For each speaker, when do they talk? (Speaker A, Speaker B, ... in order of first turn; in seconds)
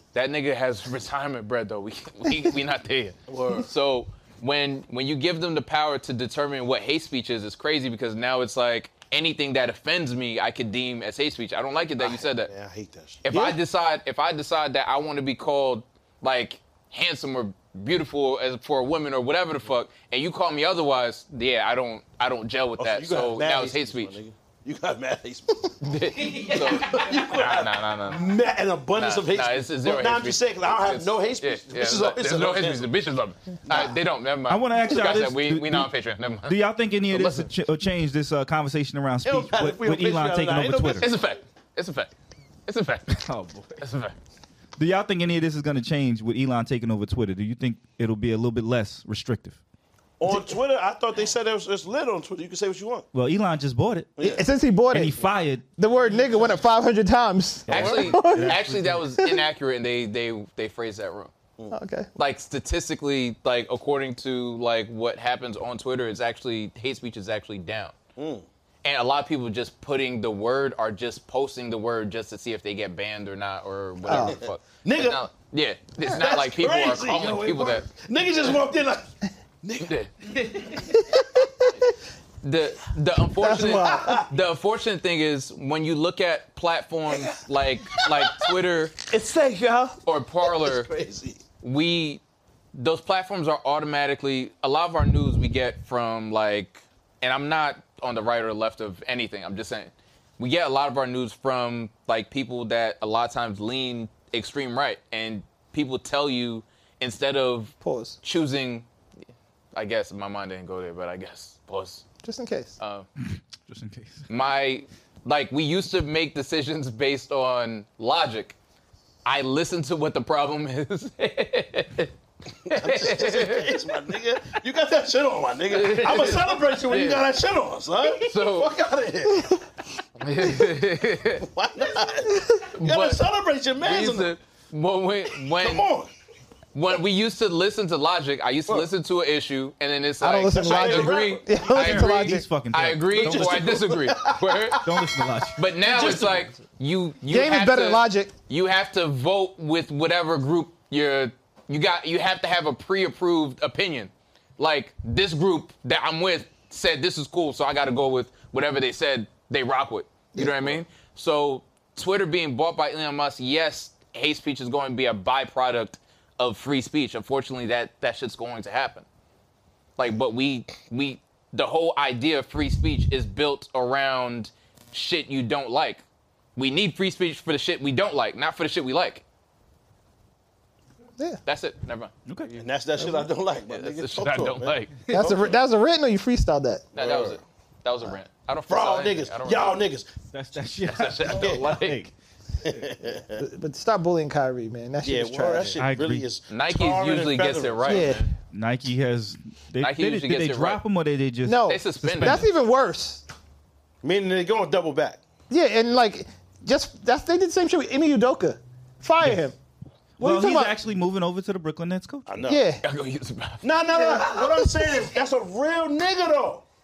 Speaker A: 0.1-12.5, 13.2-24.1, 25.8-28.3, 28.9-37.5, 40.9-42.1, 42.7-44.1, 57.7-61.3, 62.1-68.0, 68.8-77.9, 79.8-80.3, 82.4-89.0, 90.0-90.9, 91.6-92.2, 92.7-108.8, 109.7-112.0, 112.8-113.0, 114.3-118.5, 119.2-122.1, 122.7-123.8, 125.7-127.2, 128.1-128.7, 130.2-131.4, 132.8-133.2, 133.8-135.9, 136.7-144.9, 145.6-169.1, 170.0-176.0, 176.6-179.2, 181.4-185.1, 186.9-189.8, 190.8-192.1, 196.5-198.3, 199.8-200.8, 201.7-202.4, 212.8-213.6
Speaker B: 3.3-3.7, 12.0-13.6, 22.8-32.9, 39.2-41.1, 50.2-53.1, 54.2-54.4, 56.1-56.4, 57.7-58.1, 68.2-68.5, 74.1-75.2, 76.0-79.1, 79.6-79.9, 83.5-84.3, 90.4-91.4, 122.7-129.6, 131.4-134.3, 135.6-136.1, 140.5-141.6, 143.1-145.1, 145.8-146.5, 182.6-185.6, 186.9-187.4, 188.7-190.1, 191.3-191.7, 192.6-193.4, 195.0-198.2, 204.0-205.2, 212.3-212.6, 213.6-216.6
Speaker C: 34.5-35.9, 36.4-41.1, 43.2-43.8, 44.8-49.6, 53.1-54.1, 54.9-55.6, 57.7-59.1, 113.3-114.2, 141.7-143.8, 144.8-145.7, 190.3-192.1, 195.8-196.2, 198.5-202.5, 210.2-212.3
Speaker D: 54.2-55.2, 55.8-58.6, 59.2-59.4, 61.7-62.1, 74.1-74.4, 80.7-81.7, 83.4-84.2, 89.1-90.0, 107.8-108.2, 112.2-112.8, 140.2-142.4, 147.3-148.3, 185.1-186.8, 193.4-195.8, 197.8-198.2, 201.4-203.2, 205.5-209.5, 210.2-210.8, 212.4-212.8, 213.9-215.0